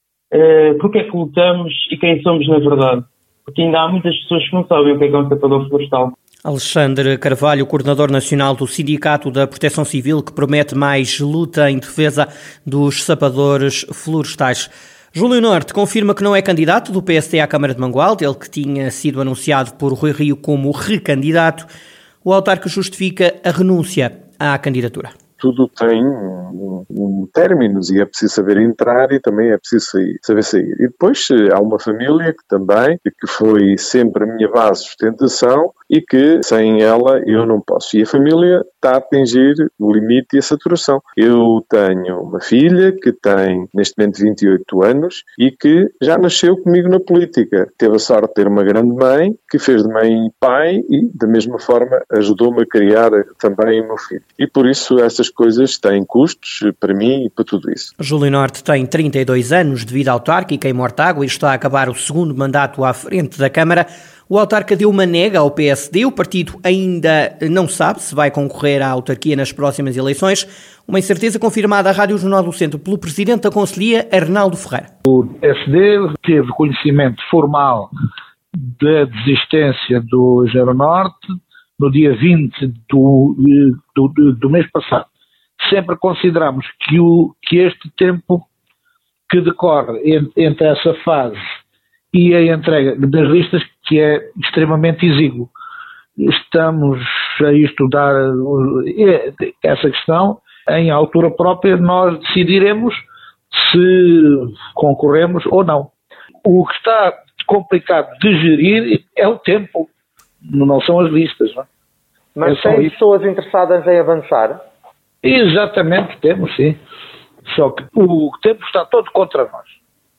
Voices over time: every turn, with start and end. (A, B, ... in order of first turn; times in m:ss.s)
0:00.3-0:06.2 A
0:06.4-0:21.7 B
0:22.2-0:25.1 B
0:25.4-0:57.9 C
0:58.0-1:14.9 B
1:15.1-1:17.9 D
1:18.6-1:21.2 D
1:21.8-1:25.1 D
1:25.6-1:28.5 D
1:29.3-1:31.4 D
1:32.1-1:35.5 D
1:36.2-1:43.0 D
1:43.5-1:45.9 D
1:46.4-1:49.9 D
1:50.5-1:51.7 D
1:52.4-1:54.6 E
1:52.4-1:53.0 D
1:55.2-1:56.8 D
1:57.5-1:59.7 D